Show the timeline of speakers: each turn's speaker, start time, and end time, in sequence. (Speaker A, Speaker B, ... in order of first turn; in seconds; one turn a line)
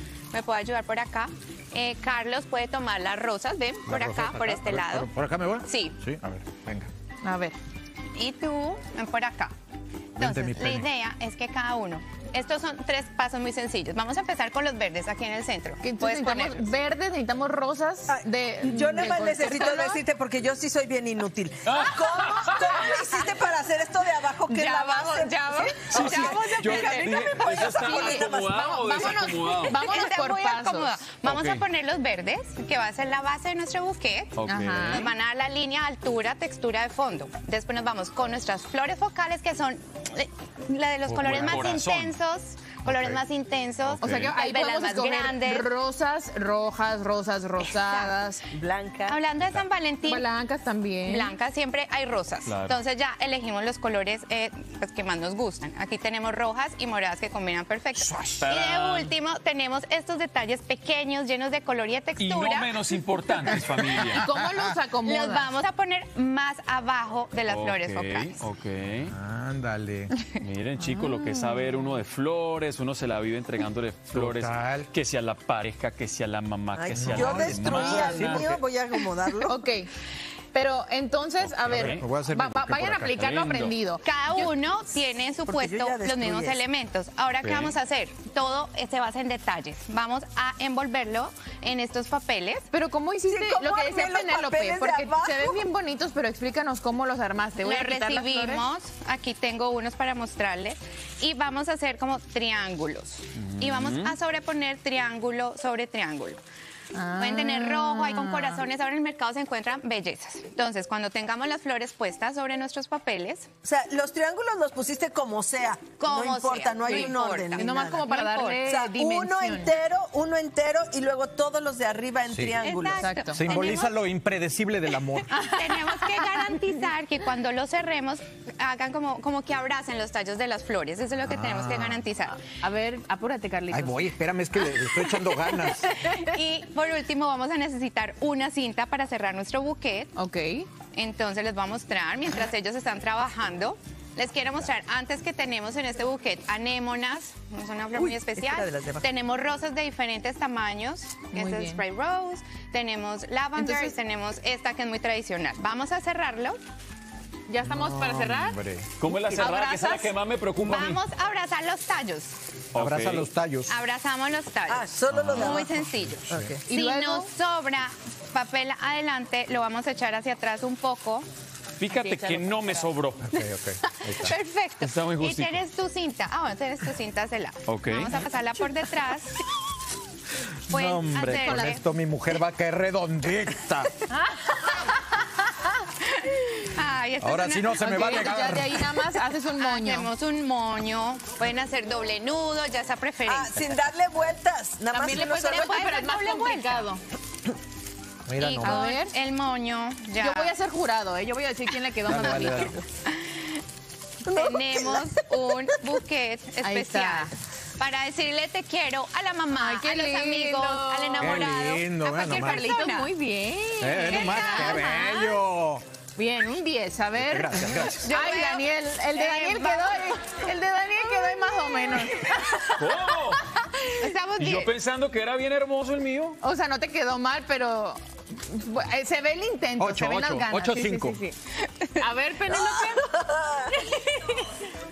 Speaker A: 0.3-5.1
Speaker B: 3.9-6.9
Speaker A: 5.7-6.0
Speaker C: 7.2-7.6
Speaker A: 8.2-9.5
Speaker A: 10.2-16.7
Speaker B: 10.2-10.9
Speaker C: 15.8-20.0
Speaker D: 18.1-29.3
Speaker E: 21.7-22.8
Speaker A: 24.5-27.1
Speaker C: 24.6-25.7
Speaker E: 25.9-29.8
Speaker C: 27.8-31.0
Speaker A: 29.6-45.7
Speaker E: 31.2-31.6
Speaker E: 34.3-35.1
Speaker C: 34.5-35.1
Speaker E: 41.1-42.2
Speaker E: 42.9-43.2
Speaker E: 43.8-44.4
Speaker C: 44.0-48.4
Speaker A: 47.6-48.2
Speaker D: 48.5-49.2
Speaker A: 49.1-50.3
Speaker C: 50.0-51.3
Speaker A: 51.0-62.8
Speaker E: 52.5-52.8
Speaker E: 58.2-59.1
Speaker E: 62.2-64.3
Speaker C: 64.1-65.5
Speaker A: 65.0-68.4
Speaker E: 67.5-69.2
Speaker B: 69.1-70.2
Speaker E: 70.4-78.5
Speaker B: 74.1-74.9
Speaker D: 76.8-79.5
Speaker B: 76.9-78.6
Speaker C: 79.5-79.9
Speaker C: 80.5-84.1
Speaker E: 81.4-82.0
Speaker B: 81.7-83.3
Speaker E: 83.2-83.8
Speaker A: 84.0-92.7
Speaker D: 85.5-86.6
Speaker E: 87.4-87.8
Speaker C: 92.7-98.7
Speaker D: 93.2-95.7
Speaker A: 97.6-106.4
Speaker E: 103.4-104.1
Speaker C: 106.9-108.6
Speaker A: 107.2-113.5
Speaker D: 113.6-118.1
Speaker A: 116.0-118.6
Speaker C: 116.8-119.8
Speaker D: 118.7-123.0
Speaker A: 122.6-124.0
Speaker C: 122.9-123.4
Speaker B: 123.3-125.3
Speaker A: 125.3-132.4
Speaker C: 125.3-126.3
Speaker B: 131.2-132.0
Speaker C: 132.4-134.1
Speaker B: 133.7-136.0
Speaker C: 135.9-136.3
Speaker A: 136.0-140.1
Speaker C: 140.2-140.7
Speaker A: 140.9-156.6
Speaker D: 147.9-149.1
Speaker C: 151.3-151.8
Speaker C: 153.6-153.9
Speaker C: 157.5-158.6
Speaker B: 157.6-158.9
Speaker E: 159.0-161.0
Speaker C: 159.3-160.1
Speaker A: 160.6-162.3
Speaker E: 162.7-163.3
Speaker B: 162.8-163.7
Speaker A: 163.7-171.3
Speaker D: 164.7-165.7
Speaker B: 165.1-166.6
Speaker D: 166.3-166.6
Speaker C: 166.7-167.3
Speaker E: 171.8-173.3
Speaker C: 171.9-172.8
Speaker B: 173.2-174.3
Speaker A: 174.1-179.4
Speaker E: 174.8-175.6
Speaker E: 177.7-178.2
Speaker B: 180.7-183.9
Speaker A: 180.7-181.8
Speaker C: 184.1-184.8
Speaker A: 185.8-193.6
Speaker B: 187.2-188.9
Speaker C: 187.8-190.1
Speaker D: 193.3-195.7
Speaker C: 194.9-197.0
Speaker A: 195.5-196.9
Speaker B: 198.2-198.8
Speaker A: 198.3-200.6
Speaker C: 198.6-199.2
Speaker C: 200.2-202.8
Speaker B: 202.1-202.8
Speaker A: 203.1-203.6
Speaker D: 204.2-205.2
Speaker A: 204.3-213.1
Speaker C: 206.6-207.3
Speaker C: 209.6-211.5
Speaker B: 211.2-212.7
Speaker C: 212.3-215.5
Speaker B: 213.8-215.8
Speaker A: 214.0-215.0
Speaker C: 216.2-222.9
Speaker B: 217.2-218.1
Speaker A: 217.8-220.4
Speaker E: 222.8-223.4
Speaker C: 223.5-224.0
Speaker A: 223.9-224.7
Speaker E: 224.4-226.4
Speaker C: 226.4-231.3
Speaker B: 229.8-231.2
Speaker A: 231.6-232.0
Speaker C: 232.0-234.3